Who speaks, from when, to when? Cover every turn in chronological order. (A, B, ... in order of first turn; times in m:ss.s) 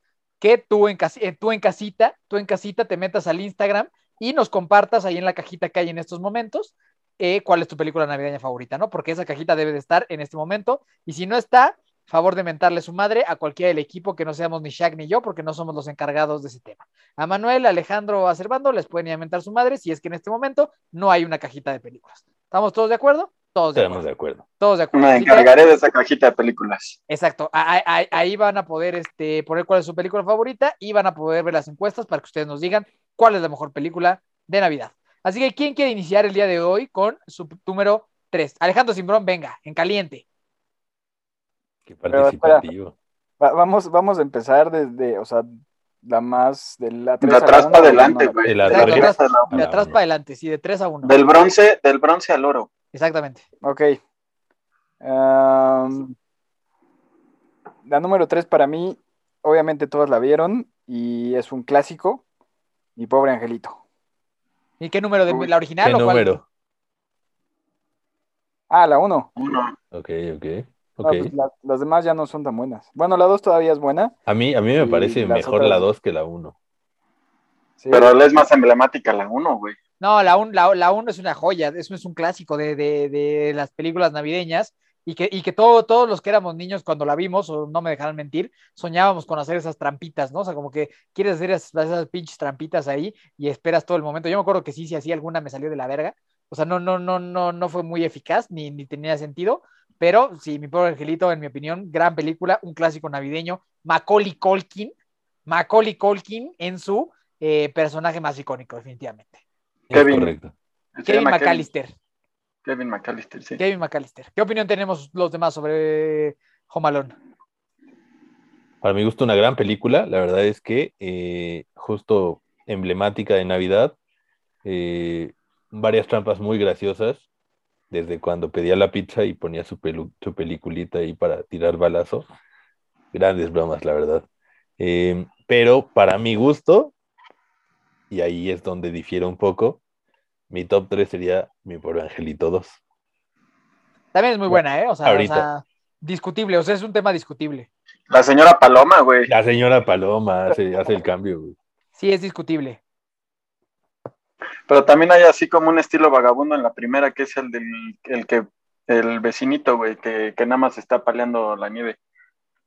0:00.4-0:24.0 A
0:23.7-0:24.4 B
0:24.6-0:25.5 A
0:24.9-0:27.0 C
0:27.1-0:40.2 A
0:41.9-0:42.9 B
0:42.1-0:42.6 D
0:43.4-0:45.5 D
0:46.0-0:48.4 D
0:47.2-0:49.5 C
0:48.4-0:50.0 B
0:48.6-0:51.1 A
0:51.0-0:52.7 C
0:52.9-0:53.4 A
0:53.6-0:54.0 D
0:55.0-0:56.1 D
0:57.8-1:02.2 D
1:03.0-1:03.8 D
1:04.8-1:06.3 A
1:05.8-1:06.4 B
1:08.7-1:09.3 D
1:09.4-1:09.8 C
1:09.9-1:11.3 B
1:11.0-1:14.1 D
1:14.3-1:16.5 B
1:14.8-1:15.9 D
1:17.8-1:18.1 D
1:17.9-1:19.8 C
1:20.0-1:44.9 A
1:45.4-1:49.4 A
1:49.9-1:50.5 B
1:49.9-1:50.3 C
1:50.9-1:51.7 C
1:51.0-1:51.9 A
1:52.6-1:53.6 C
1:53.6-1:57.1 A
1:58.8-2:03.9 B
2:04.6-2:07.2 B
2:07.9-2:12.3 B
2:13.1-2:14.2 B
2:14.8-2:16.9 B
2:18.1-2:19.8 B
2:20.5-2:22.8 B
2:24.1-2:27.7 A
2:24.5-2:25.4 B
2:28.1-2:29.3 C
2:29.3-2:31.6 B
2:32.0-2:32.8 A
2:34.7-2:42.0 C